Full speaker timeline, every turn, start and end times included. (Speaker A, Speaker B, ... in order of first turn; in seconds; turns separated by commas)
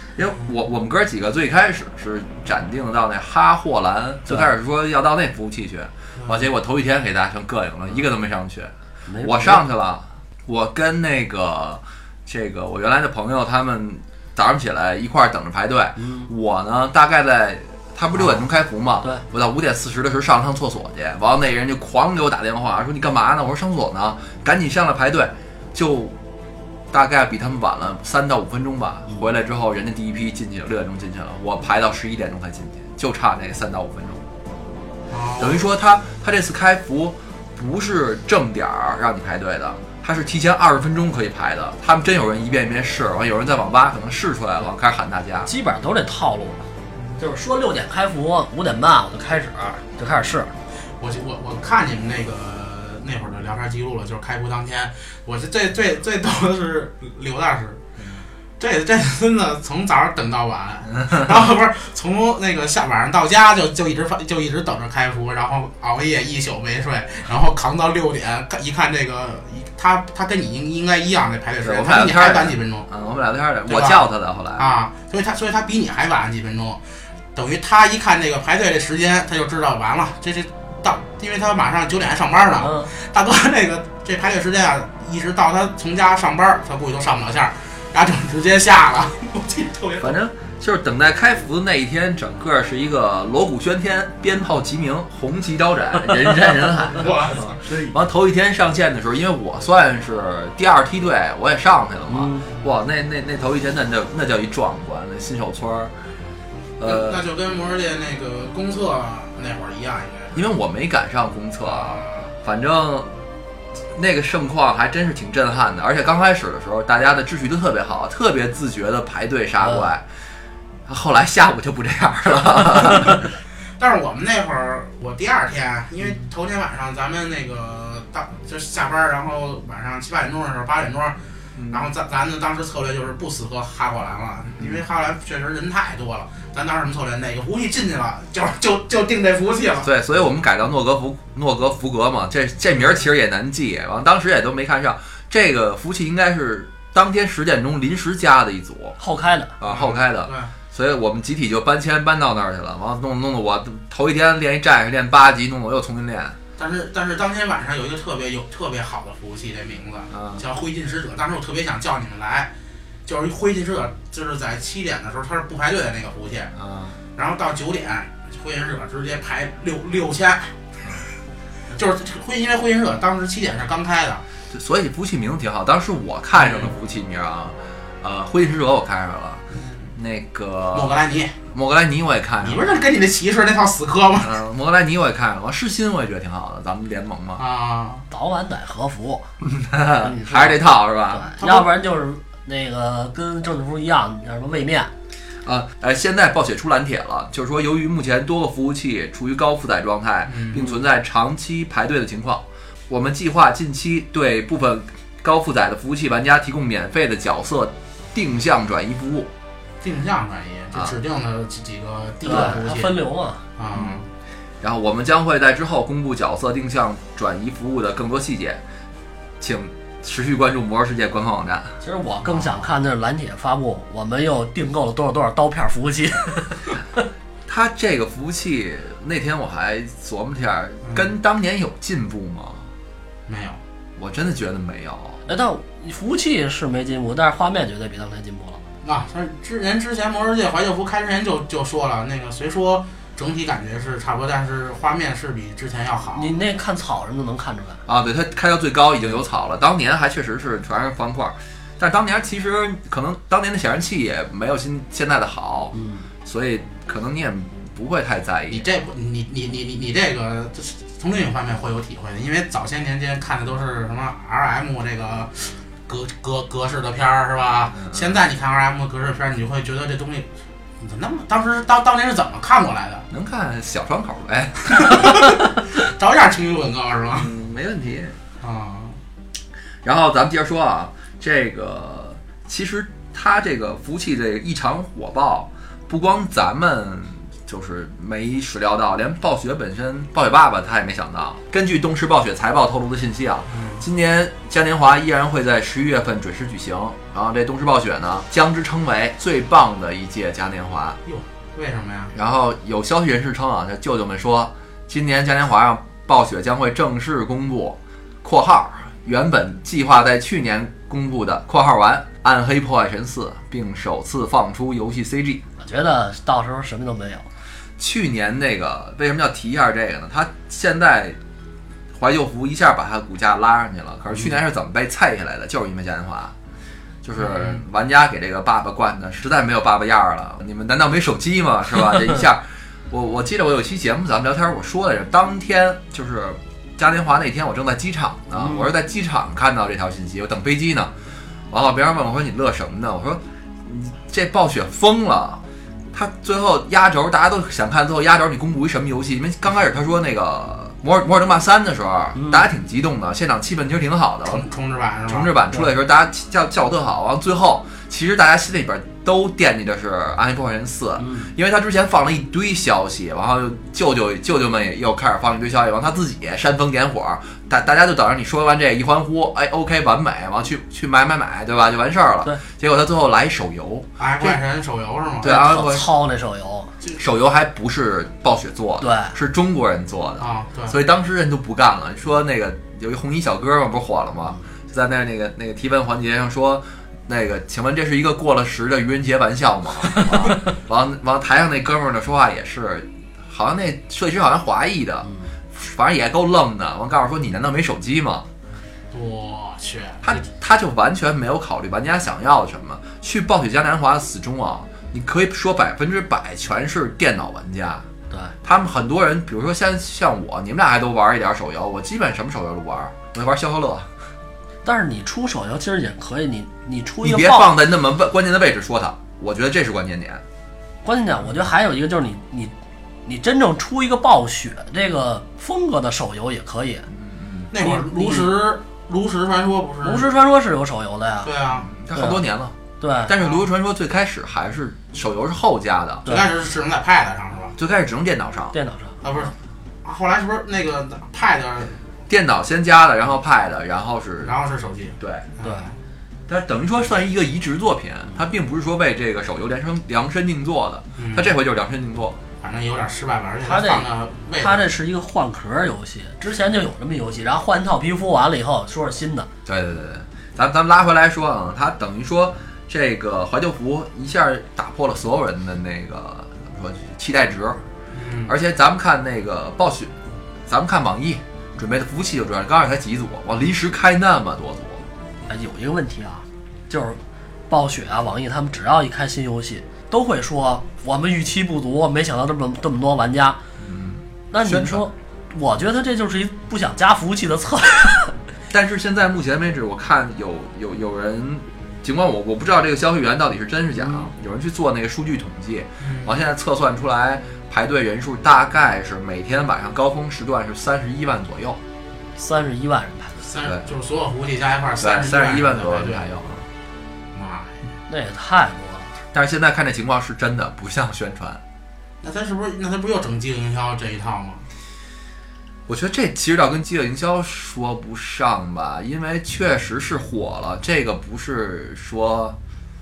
Speaker A: 0.2-26.1, Speaker B: 6.2-6.5, Speaker C: 9.1-9.6, Speaker C: 16.0-16.3, Speaker A: 26.9-34.2, Speaker B: 35.1-35.6, Speaker A: 35.4-45.5, Speaker C: 45.5-46.6, Speaker C: 47.2-50.5, Speaker B: 51.0-57.8, Speaker A: 58.0-58.2, Speaker B: 58.6-72.9, Speaker A: 61.0-61.3, Speaker A: 71.6-74.7, Speaker B: 73.7-76.8, Speaker B: 77.3-90.2, Speaker C: 82.6-82.9, Speaker A: 90.0-105.9, Speaker B: 96.9-97.9, Speaker C: 102.1-102.5, Speaker A: 106.8-107.2, Speaker B: 106.8-110.5, Speaker A: 110.3-113.1, Speaker B: 111.6-112.3, Speaker A: 113.9-120.0, Speaker A: 120.9-123.2, Speaker B: 123.8-139.9, Speaker A: 131.5-131.9, Speaker A: 139.8-149.0, Speaker C: 149.0-149.5, Speaker A: 149.6-156.4, Speaker B: 149.6-150.5, Speaker B: 156.6-162.5, Speaker A: 160.1-160.4, Speaker B: 163.1-166.5, Speaker A: 166.5-167.0, Speaker B: 167.2-170.5, Speaker B: 171.7-174.2, Speaker A: 174.5-179.4, Speaker B: 176.3-176.7, Speaker B: 179.5-179.9, Speaker A: 179.9-181.0, Speaker B: 180.7-181.4, Speaker A: 181.5-182.8, Speaker B: 182.4-184.3, Speaker A: 184.2-187.4, Speaker B: 187.4-188.1, Speaker C: 188.1-189.3, Speaker A: 189.4-191.3, Speaker C: 190.0-194.9, Speaker B: 191.4-191.7, Speaker A: 195.4-209.3, Speaker B: 200.2-200.7, Speaker B: 209.8-213.0, Speaker C: 212.2-213.4, Speaker B: 213.6-214.1, Speaker A: 214.6-218.6, Speaker A: 219.4-221.8, Speaker C: 221.8-226.7, Speaker A: 227.4-232.7, Speaker B: 230.8-231.1, Speaker B: 233.3-233.6, Speaker A: 234.0-235.2, Speaker C: 235.2-238.6, Speaker B: 238.8-246.3, Speaker C: 246.1-247.8, Speaker A: 247.8-258.7, Speaker C: 255.7-256.1, Speaker B: 258.5-270.3, Speaker A: 267.7-268.2, Speaker B: 270.8-273.0, Speaker A: 273.1-275.6, Speaker B: 274.7-277.3, Speaker A: 277.1-278.2, Speaker B: 278.4-279.0, Speaker A: 279.8-301.0, Speaker B: 293.5-293.8, Speaker B: 301.1-302.1, Speaker A: 302.1-315.4, Speaker C: 315.6-317.2, Speaker A: 317.8-321.2, Speaker A: 321.9-326.3, Speaker A: 327.0-340.9, Speaker B: 327.2-327.6, Speaker C: 338.4-338.7, Speaker A: 341.5-345.4, Speaker A: 345.9-354.4, Speaker C: 352.1-352.5, Speaker B: 354.2-355.4, Speaker A: 355.1-374.4, Speaker C: 361.0-361.3, Speaker B: 374.0-375.4, Speaker A: 375.2-375.9, Speaker C: 375.2-376.7, Speaker A: 376.9-398.2, Speaker C: 378.8-379.1, Speaker B: 380.2-380.8, Speaker B: 398.9-400.2, Speaker A: 400.0-407.9, Speaker A: 408.4-413.9, Speaker C: 414.6-417.5, Speaker A: 417.0-420.2, Speaker C: 420.8-422.5, Speaker C: 423.0-426.9, Speaker A: 426.9-427.5, Speaker B: 427.5-430.1, Speaker C: 427.6-428.3, Speaker C: 429.8-431.3, Speaker B: 431.2-431.7, Speaker A: 431.6-436.1, Speaker C: 431.9-432.2, Speaker C: 432.8-433.1, Speaker B: 436.1-437.5, Speaker A: 437.6-438.6, Speaker C: 438.5-439.0, Speaker B: 439.0-439.3, Speaker B: 439.8-441.7, Speaker A: 442.1-444.3, Speaker B: 444.2-445.8, Speaker A: 445.0-445.3, Speaker A: 446.3-452.2, Speaker B: 451.0-451.3, Speaker B: 452.4-454.7, Speaker C: 453.4-459.3, Speaker A: 459.4-467.6, Speaker B: 467.9-468.3, Speaker A: 468.2-469.9, Speaker A: 470.5-474.8, Speaker C: 475.3-477.0, Speaker C: 477.5-483.4, Speaker A: 483.6-484.8, Speaker C: 484.3-488.1, Speaker A: 488.5-501.6, Speaker C: 493.8-494.1, Speaker B: 495.8-496.1, Speaker C: 502.2-503.2, Speaker B: 503.2-506.0, Speaker A: 504.8-506.5, Speaker B: 507.1-507.6, Speaker C: 507.9-508.9, Speaker A: 509.1-511.4, Speaker B: 512.0-514.4, Speaker A: 515.7-522.4